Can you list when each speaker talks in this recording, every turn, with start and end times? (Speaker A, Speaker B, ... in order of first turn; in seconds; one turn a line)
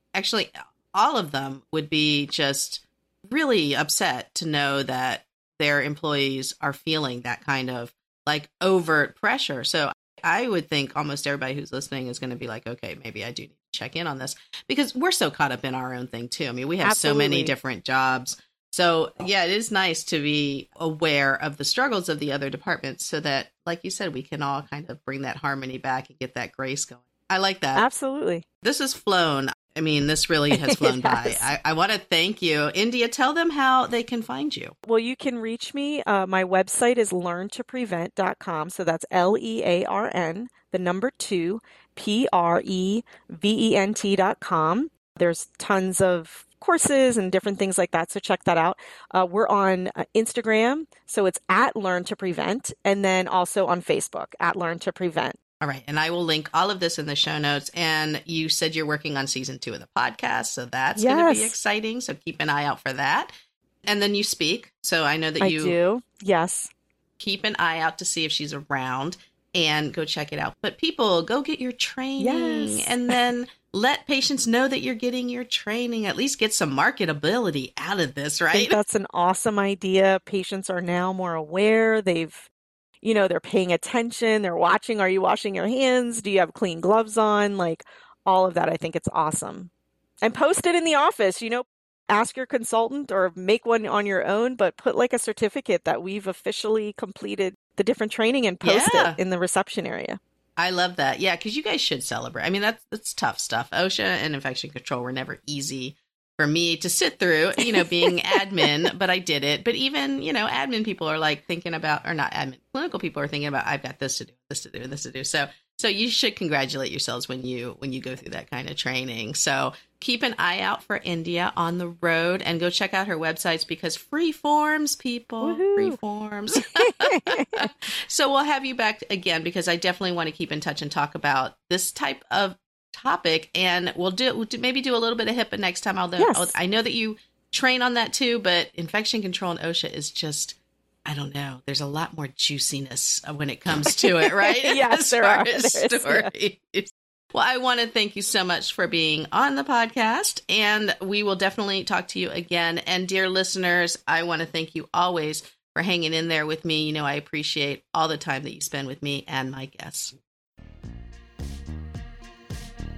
Speaker A: 0.1-27.8
Speaker B: 16.8-17.5
Speaker B: 27.7-28.4
Speaker A: 28.6-34.7
Speaker B: 30.5-31.5
Speaker B: 34.9-55.4
Speaker A: 55.6-63.3
Speaker B: 61.0-61.5
Speaker A: 63.8-65.7
Speaker B: 65.4-66.7
Speaker A: 67.2-78.8
Speaker B: 72.2-73.1
Speaker B: 78.5-82.5
Speaker B: 83.0-89.7
Speaker B: 90.2-100.2
Speaker A: 98.6-99.2
Speaker A: 100.6-160.1
Speaker B: 107.6-108.7
Speaker B: 125.4-126.0
Speaker B: 126.6-127.6
Speaker B: 136.2-136.6
Speaker B: 143.8-146.3